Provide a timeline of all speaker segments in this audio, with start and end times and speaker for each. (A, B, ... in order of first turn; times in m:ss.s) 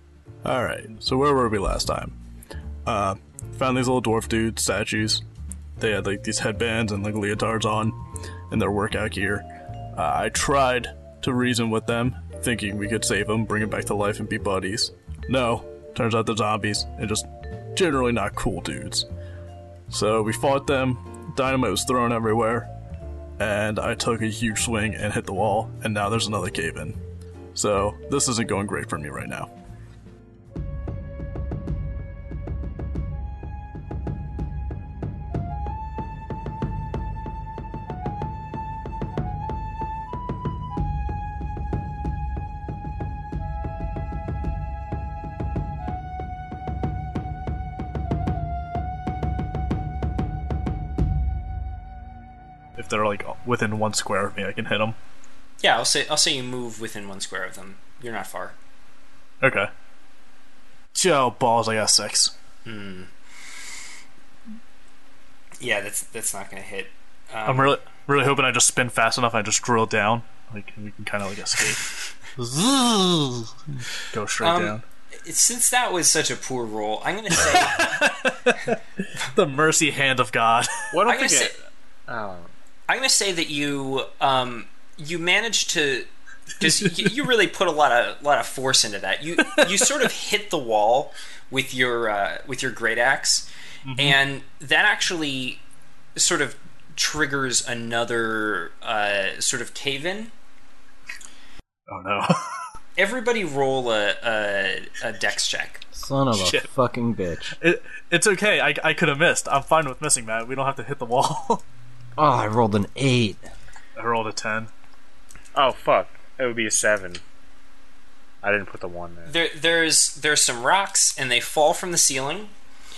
0:00.4-0:02.2 A
0:02.9-0:05.2 A
0:05.8-0:08.0 A
0:08.5-0:09.4 A
0:10.0-0:19.1 A
0:19.9-0:22.7 A
0:23.4-0:27.0 A
0:27.6-0:29.5 A
0:52.8-0:55.0 A
0:55.6-0:58.6 B
0:59.4-0:59.7 A
1:00.9-1:02.3 A
1:02.7-1:03.1 B
1:05.6-1:07.8 B
1:07.5-1:14.8 A
1:14.4-1:18.1 B
1:17.4-1:20.9 A
1:20.9-1:21.6 C
1:21.1-1:21.6 B
1:22.1-1:22.5 C
1:22.9-1:26.1 B
1:26.6-1:35.6 B
1:33.8-1:34.2 A
1:36.2-1:40.3 B
1:41.9-1:42.7 A
1:43.0-1:45.8 B
1:46.0-1:47.6 D
1:46.3-1:46.7 A
1:47.6-1:51.6 A
1:52.2-1:53.5 D
1:54.0-1:54.7 A
1:55.6-1:57.2 C
1:58.4-1:59.3 C
1:59.3-2:02.5 B